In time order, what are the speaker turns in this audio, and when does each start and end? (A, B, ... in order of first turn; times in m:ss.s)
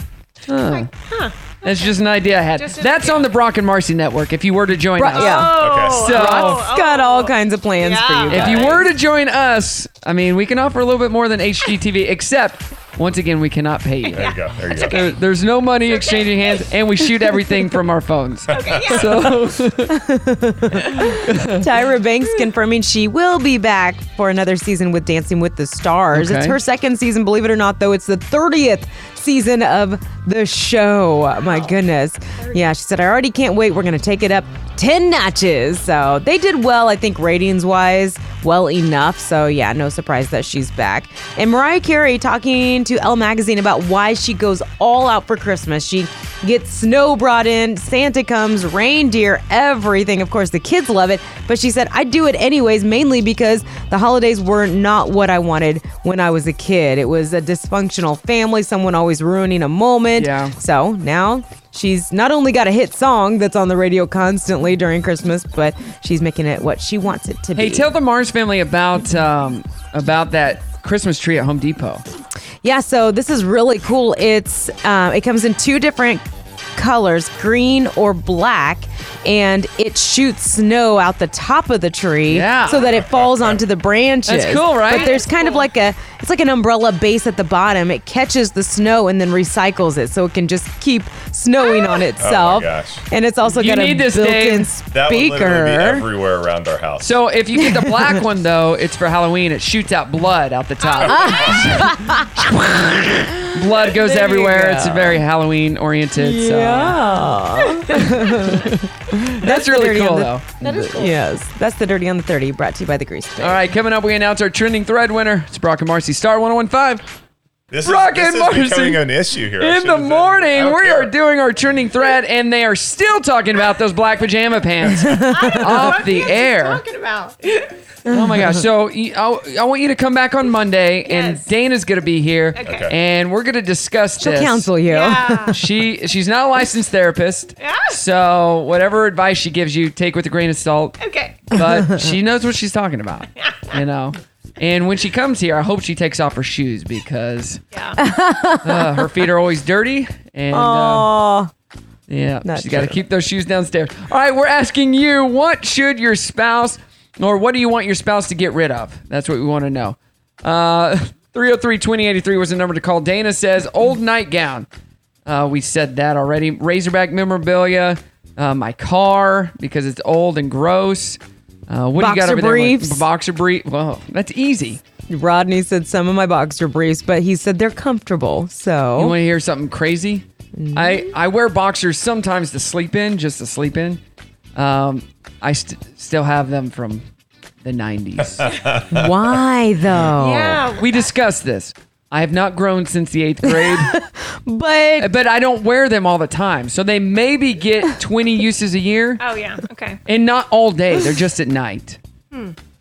0:00.5-0:00.9 A
0:00.7-0:02.0 B
0:01.6-0:06.6 A
0:02.5-0:03.3 B
0:05.0-0:08.9 C
0:05.1-0:08.9 B
0:05.6-0:06.1 D
0:08.3-0:19.9 A
0:14.1-0:15.2 B
0:14.2-0:15.0 D
0:15.8-0:16.7 B
0:18.5-0:19.2 B
0:19.9-1:07.9 C
0:21.1-0:21.6 A
0:26.1-0:26.6 A
0:31.4-0:31.8 B
0:32.4-0:32.6 B
1:00.2-1:00.5 A
1:07.6-1:12.0 A
1:12.6-1:16.2 C
1:16.8-1:36.0 C
1:22.3-1:22.8 A
1:22.9-1:23.5 D
1:24.3-1:25.2 A
1:24.9-1:25.7 B
1:32.2-1:33.0 D
1:33.5-1:34.7 A
1:34.9-1:37.2 D
1:37.0-1:47.0 A
1:37.6-1:38.2 C
1:40.8-1:41.6 B
1:41.0-1:42.9 C
1:43.9-1:45.2 C
1:46.2-1:48.7 C
1:48.3-1:48.8 A
1:49.4-1:50.6 A
1:49.4-1:53.6 C
1:50.6-1:51.1 B
1:53.4-1:57.0 A
1:57.7-2:01.1 D
1:57.8-1:59.0 A
1:59.6-2:06.8 A
2:04.9-2:05.9 C
2:05.3-2:07.7 B
2:08.1-2:08.5 C
2:08.1-2:14.7 A
2:11.1-2:11.5 B
2:12.6-2:12.9 B
2:12.6-2:12.9 D
2:14.2-2:15.6 C
2:14.9-2:15.6 B
2:15.5-2:21.0 A
2:17.6-2:18.0 B
2:21.0-2:21.5 B
2:21.5-2:27.6 A
2:21.6-2:22.1 C
2:23.4-2:23.8 B
2:28.0-2:29.1 C
2:28.6-2:31.1 A
2:30.5-2:31.5 C
2:32.1-2:44.7 A
2:32.4-2:33.0 C
2:45.3-2:54.8 A
2:52.0-2:53.0 C
2:55.1-2:59.2 C
2:59.0-3:04.0 A
3:00.6-3:01.1 C
3:04.6-3:07.0 A
3:07.6-3:08.5 A
3:08.3-3:09.1 D
3:08.9-3:10.7 C
3:10.2-3:11.2 B
3:10.8-3:13.9 A
3:13.4-3:15.1 C
3:15.0-3:19.2 A
3:19.2-3:20.0 B
3:20.1-3:22.0 A